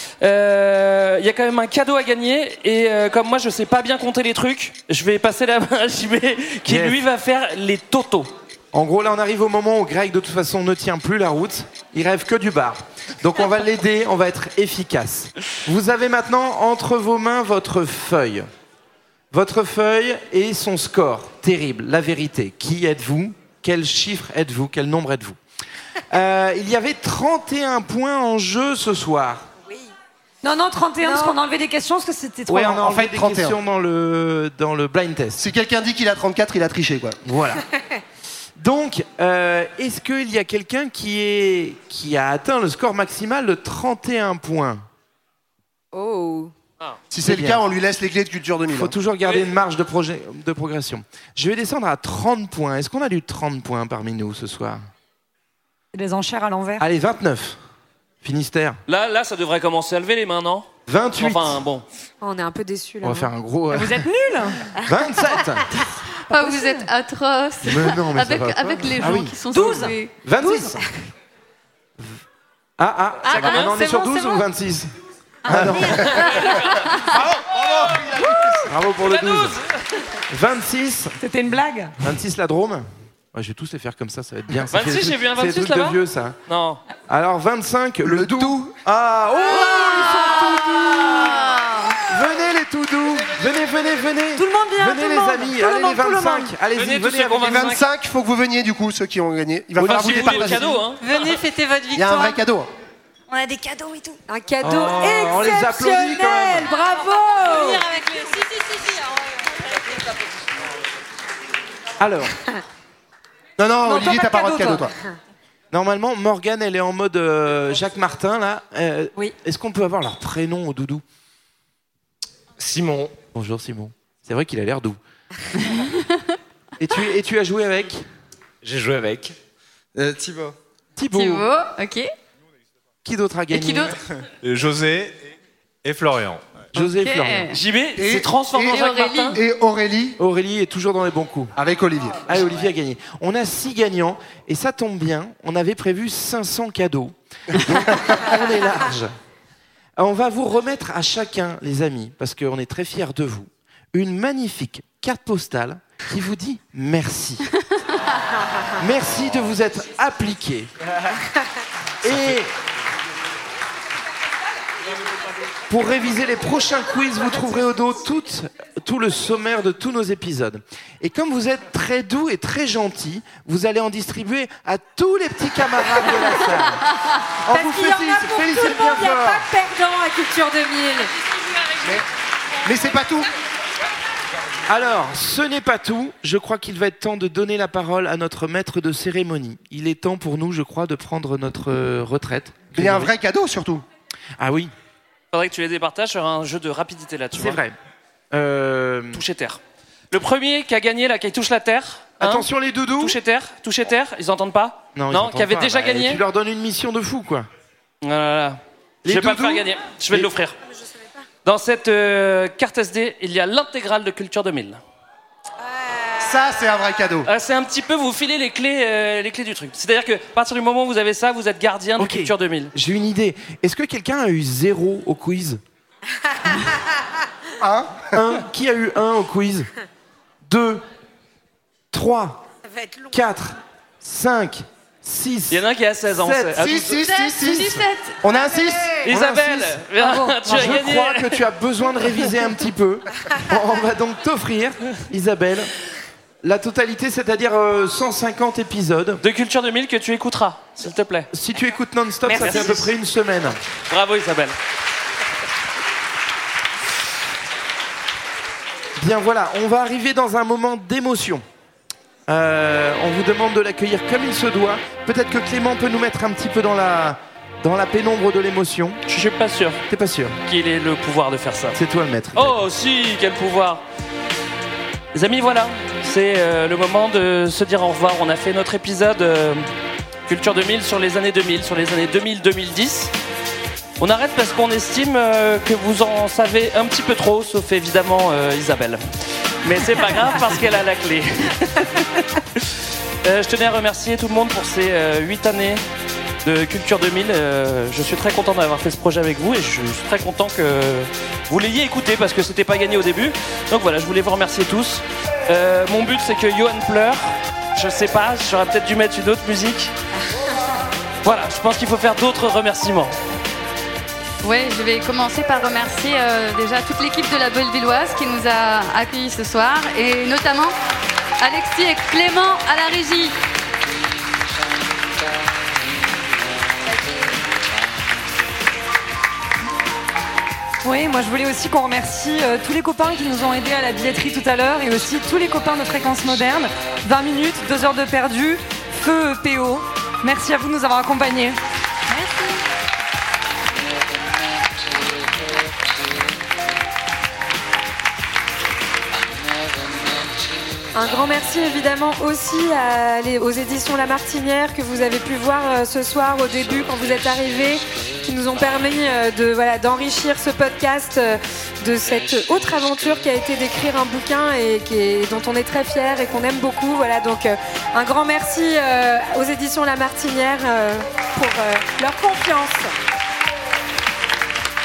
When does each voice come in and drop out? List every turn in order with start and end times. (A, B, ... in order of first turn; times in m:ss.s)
0:00.2-0:08.3 A
0:06.6-0:07.0 B
0:08.7-0:18.5 B
0:19.3-0:25.4 B
0:26.1-0:29.5 B
0:30.4-0:33.0 C
0:31.0-0:31.4 D
0:32.5-0:35.4 B
0:32.9-0:33.6 E
0:35.4-0:37.2 E
0:37.2-0:37.6 B
0:38.6-0:44.8 B
0:45.9-0:46.5 D
0:47.1-0:48.9 E
0:47.2-0:47.6 B
0:48.7-0:54.8 B
0:55.9-0:56.8 C
0:56.8-0:57.6 B
0:58.2-0:58.8 B
0:58.9-1:00.7 A
1:00.9-1:01.6 B
1:01.2-1:01.8 A
1:02.2-1:03.3 D
1:03.0-1:04.0 B
1:03.7-1:04.6 C
1:04.8-1:05.6 B
1:06.3-1:10.1 F
1:07.6-1:09.4 B
1:09.5-1:10.7 C
1:10.2-1:10.8 B
1:12.8-1:14.9 B
1:13.3-1:13.8 A
1:13.4-1:14.4 D
1:15.4-1:16.2 B
1:15.8-1:16.8 A
1:18.7-1:19.6 B
1:19.0-1:19.6 A
1:20.3-1:21.1 B
1:21.2-1:21.9 C
1:22.0-1:26.4 B
1:24.7-1:26.8 A
1:27.1-1:31.2 B
1:28.0-1:28.7 E
1:29.7-1:30.2 F
1:30.4-1:31.0 D
1:31.4-1:31.7 F
1:32.1-1:37.7 B
1:34.4-1:36.5 D
1:36.7-1:37.8 A
1:37.4-1:40.8 E
1:39.8-1:41.0 A
1:39.8-1:40.6 B
1:41.0-1:42.4 G
1:41.9-1:42.7 E
1:43.3-1:44.2 G
1:44.3-1:47.9 D
1:44.6-1:46.7 B
1:47.5-1:48.9 G
1:52.0-1:52.3 B
1:53.6-1:54.9 E
1:53.8-1:54.8 C
1:55.7-2:01.0 B
2:02.6-2:03.1 H
2:03.3-2:05.0 B
2:06.8-2:08.0 B
2:08.6-2:09.4 H
2:09.9-2:10.5 H
2:11.0-2:11.5 B
2:11.1-2:12.1 F
2:13.0-2:14.0 B
2:13.6-2:13.9 F
2:14.4-2:15.2 H
2:15.8-2:16.7 H
2:16.7-2:17.5 B
2:16.9-2:17.5 F
2:17.5-2:19.4 A
2:18.0-2:20.2 E
2:18.7-2:19.4 F
2:20.2-2:21.5 B
2:21.6-2:22.3 E
2:22.3-2:29.1 B
2:30.0-2:37.4 B
2:38.8-2:40.7 B
2:42.0-2:42.5 B
2:45.7-2:56.8 B
2:57.4-2:59.4 B
2:57.5-3:01.1 D
3:01.8-3:02.0 E
3:02.6-3:03.3 E
3:04.7-3:13.1 B
3:12.7-3:13.8 E
3:14.4-3:14.7 B
3:15.3-3:17.6 A
3:17.3-3:17.8 B
3:18.3-3:19.2 B
3:19.1-3:19.6 A
3:20.1-3:22.5 A
3:22.2-3:23.2 B
3:23.0-3:26.2 A
3:25.0-3:27.5 B
3:28.0-3:30.5 A
3:29.0-3:30.3 B
3:31.4-3:34.8 A
3:36.2-3:37.3 E
3:37.2-3:42.7 A
3:42.0-3:45.6 B
3:47.6-3:48.2 E
3:48.1-3:49.7 B
3:50.4-3:50.8 B
3:51.9-3:52.4 B
3:53.1-3:56.8 B
3:55.5-3:56.9 A
3:56.6-3:59.0 E
3:56.9-3:58.2 F
3:59.1-4:01.4 A
3:59.1-3:59.8 B
4:00.4-4:05.7 B
4:06.4-4:09.2 B
4:09.2-4:11.3 A
4:11.3-4:13.6 B
4:12.3-4:12.8 A
4:13.9-4:14.5 A
4:19.0-4:21.4 B
4:22.3-4:29.0 B
4:29.1-4:29.8 A
4:29.9-4:30.4 B
4:30.4-4:31.8 A
4:31.7-4:32.6 B
4:32.3-4:33.8 A
4:35.1-4:39.7 A
4:40.3-4:43.1 A
4:44.0-4:49.0 A
4:49.6-4:52.6 A
4:53.2-4:55.8 A
4:56.4-5:09.9 A
5:11.2-5:13.1 A
5:14.4-5:20.7 F
5:21.4-5:23.3 F
5:30.8-5:41.6 C
5:42.1-5:42.6 G
5:50.9-6:12.9 D